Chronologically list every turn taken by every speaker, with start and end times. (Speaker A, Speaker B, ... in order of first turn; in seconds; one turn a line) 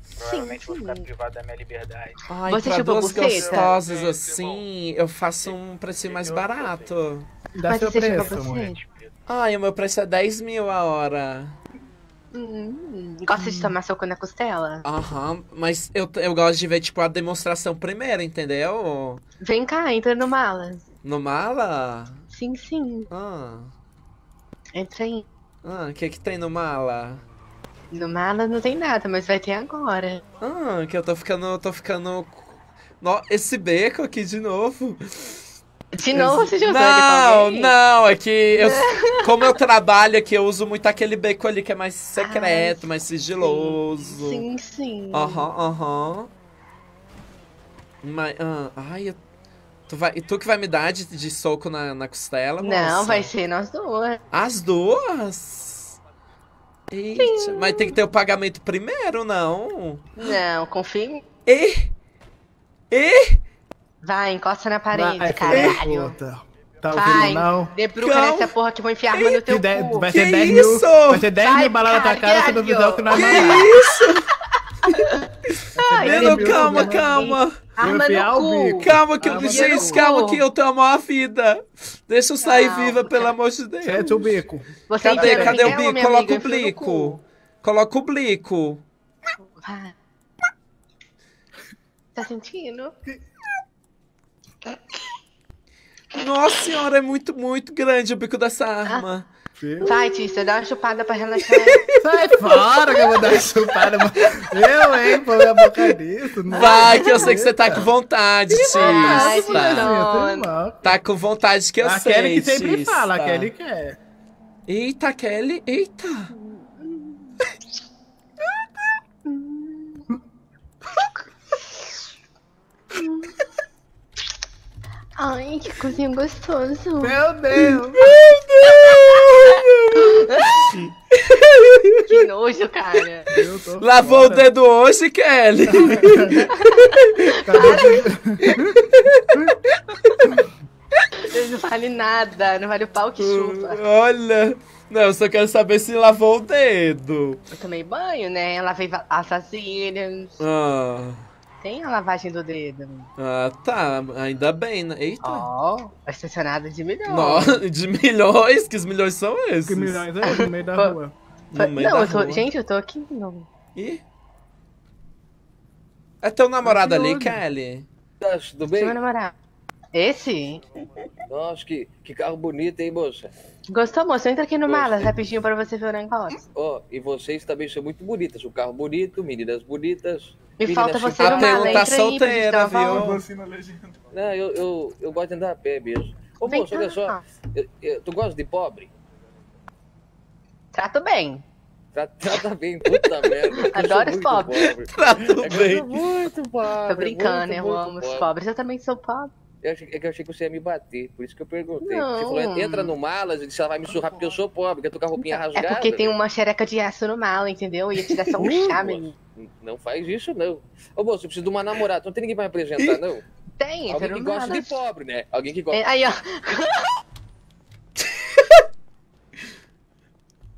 Speaker A: 0.1-2.2
Speaker B: 0.2-1.1
Speaker C: 2.3-7.3
Speaker B: 2.5-3.8
Speaker A: 3.2-4.6
Speaker A: 6.0-6.9
Speaker D: 7.5-8.8
Speaker B: 7.7-8.8
Speaker C: 9.3-11.6
Speaker B: 12.3-14.8
Speaker D: 13.4-13.7
Speaker C: 14.8-19.2
Speaker B: 19.4-20.9
Speaker C: 21.0-22.2
Speaker B: 22.3-23.1
Speaker C: 23.1-23.7
Speaker B: 24.8-25.2
Speaker C: 25.6-27.2
Speaker B: 27.9-30.2
Speaker C: 30.4-35.0
Speaker B: 35.9-37.8
Speaker C: 36.1-44.5
Speaker B: 38.6-39.5
Speaker B: 42.2-45.5
Speaker C: 45.1-46.3
Speaker C: 48.0-49.2
Speaker C: 49.9-53.3
Speaker B: 52.6-54.2
Speaker C: 54.3-56.0
Speaker C: 56.9-60.3
Speaker B: 57.2-58.0
Speaker B: 60.2-61.2
Speaker C: 61.5-61.9
Speaker C: 62.9-63.4
Speaker B: 64.0-66.2
Speaker D: 64.9-67.7
Speaker C: 65.5-65.8
Speaker B: 66.9-70.1
Speaker C: 68.0-68.5
Speaker C: 69.1-69.4
Speaker D: 69.5-73.7
Speaker C: 70.1-71.3
Speaker B: 71.4-73.9
Speaker C: 73.1-74.3
Speaker C: 74.9-77.8
Speaker D: 75.8-80.0
Speaker B: 75.9-80.4
Speaker C: 78.8-84.3
Speaker B: 82.4-83.3
Speaker D: 83.8-85.8
Speaker B: 84.9-87.2
Speaker C: 85.0-88.8
Speaker B: 89.6-89.9
Speaker B: 92.2-92.9
Speaker C: 96.1-99.3
Speaker D: 99.6-99.9
Speaker B: 99.8-101.8
Speaker D: 102.0-107.9
Speaker C: 103.9-105.2
Speaker B: 106.5-107.3
Speaker C: 106.5-109.9
Speaker D: 108.6-110.9
Speaker B: 108.7-110.5
Speaker C: 110.8-113.5
Speaker D: 111.8-114.0
Speaker C: 114.7-116.3
Speaker B: 116.4-117.3
Speaker B: 119.2-120.1
Speaker B: 123.0-123.4
Speaker B: 125.2-127.2
Speaker D: 127.0-128.2
Speaker C: 127.6-132.2
Speaker B: 129.5-130.7
Speaker B: 132.1-133.3
Speaker D: 133.3-134.5
Speaker C: 133.3-137.3
Speaker D: 135.7-136.5
Speaker B: 136.5-138.1
Speaker D: 137.4-139.5
Speaker C: 138.5-140.4
Speaker B: 141.2-143.8
Speaker C: 143.2-147.4
Speaker B: 147.5-150.4
Speaker C: 150.4-151.2
Speaker B: 151.6-153.1
Speaker C: 153.2-155.5
Speaker B: 155.2-157.6
Speaker C: 157.1-160.1
Speaker D: 159.7-161.2
Speaker B: 160.2-161.0
Speaker C: 161.5-162.5
Speaker B: 161.6-163.5
Speaker C: 163.8-164.0
Speaker C: 166.2-167.9
Speaker D: 166.6-167.4
Speaker E: 168.2-169.0
Speaker B: 168.7-169.3
Speaker B: 169.9-170.6
Speaker E: 171.3-173.3
Speaker B: 173.7-176.4
Speaker E: 174.7-175.2
Speaker E: 176.5-181.9
Speaker B: 180.6-183.2
Speaker C: 181.2-183.2
Speaker D: 182.9-183.9
Speaker E: 184.1-188.9
Speaker B: 186.5-187.2
Speaker B: 190.7-191.4
Speaker E: 191.9-198.3
Speaker B: 193.6-194.6
Speaker C: 194.6-196.1
Speaker B: 196.9-199.3
Speaker E: 199.6-206.2
Speaker B: 201.8-202.9
Speaker B: 205.5-209.1
Speaker C: 208.0-208.7
Speaker E: 208.6-213.2
Speaker C: 212.8-213.0
Speaker B: 213.6-214.8
Speaker E: 213.9-215.8
Speaker B: 215.7-216.9
Speaker C: 218.2-218.5